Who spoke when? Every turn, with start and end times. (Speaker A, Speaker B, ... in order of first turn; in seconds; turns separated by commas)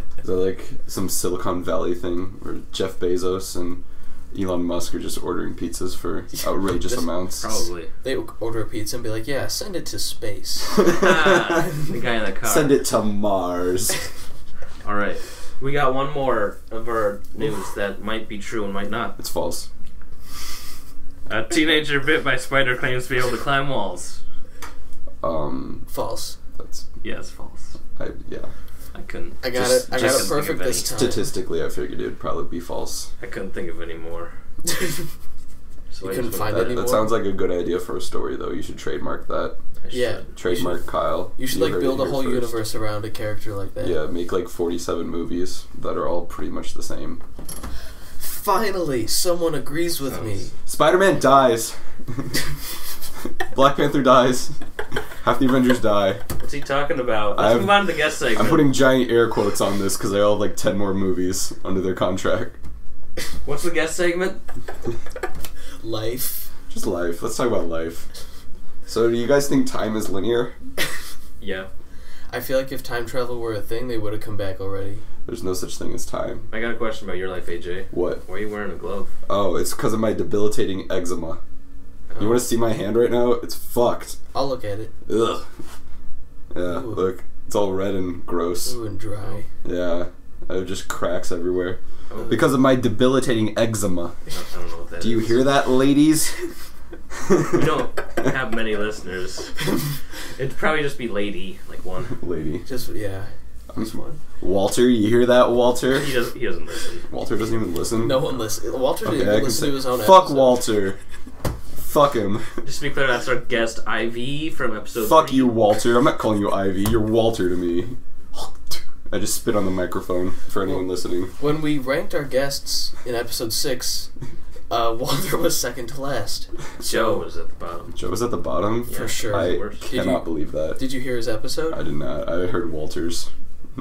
Speaker A: 0.2-7.5, Speaker B: 7.4-7.9, Speaker C: 8.0-11.0, Speaker A: 10.8-11.6, Speaker B: 10.9-12.7, Speaker A: 12.4-13.9, Speaker B: 14.8-19.2, Speaker A: 19.2-19.7, Speaker B: 21.3-24.2, Speaker A: 25.2-25.9, Speaker C: 25.9-26.4, Speaker A: 26.6-26.8, Speaker B: 27.0-27.8, Speaker A: 27.9-28.5, Speaker B: 28.9-30.9, Speaker C: 29.4-31.3, Speaker A: 29.5-30.3, Speaker A: 30.9-33.1, Speaker B: 33.2-34.3, Speaker C: 34.7-35.0, Speaker B: 35.9-36.8, Speaker C: 36.0-37.1, Speaker A: 36.5-39.6, Speaker B: 39.8-40.3, Speaker C: 39.9-40.8, Speaker A: 40.4-42.6, Speaker C: 41.4-44.0, Speaker A: 43.8-47.2, Speaker C: 48.2-50.5, Speaker B: 50.1-50.4, Speaker A: 50.6-52.4, Speaker A: 53.4-56.2, Speaker B: 56.4-58.7, Speaker A: 57.4-62.6, Speaker B: 63.4-64.4, Speaker C: 65.8-66.5, Speaker A: 66.7-68.1, Speaker A: 68.9-70.5, Speaker B: 71.4-71.7, Speaker C: 72.3-75.0, Speaker A: 75.2-76.5, Speaker B: 76.5-79.1, Speaker A: 77.9-78.2, Speaker A: 79.3-81.4, Speaker B: 82.1-82.4, Speaker A: 82.2-84.2, Speaker C: 84.3-84.9, Speaker A: 85.1-85.5, Speaker A: 86.5-88.8, Speaker C: 86.6-87.0, Speaker C: 88.6-89.5, Speaker A: 89.6-94.1, Speaker B: 92.1-92.5, Speaker B: 94.3-95.4, Speaker A: 95.0-96.3, Speaker A: 97.1-97.7, Speaker B: 97.5-99.5, Speaker B: 100.3-102.2, Speaker A: 102.1-102.7, Speaker C: 102.7-104.2, Speaker A: 103.7-106.1, Speaker B: 106.0-107.1, Speaker A: 107.1-108.2, Speaker C: 108.0-110.7, Speaker A: 109.0-111.0, Speaker A: 111.7-112.5, Speaker B: 112.6-115.5, Speaker A: 115.0-121.3, Speaker C: 121.4-124.1, Speaker C: 124.7-127.2, Speaker B: 126.8-128.0, Speaker A: 127.9-130.8, Speaker B: 128.8-129.8, Speaker C: 128.9-131.8, Speaker A: 131.7-133.3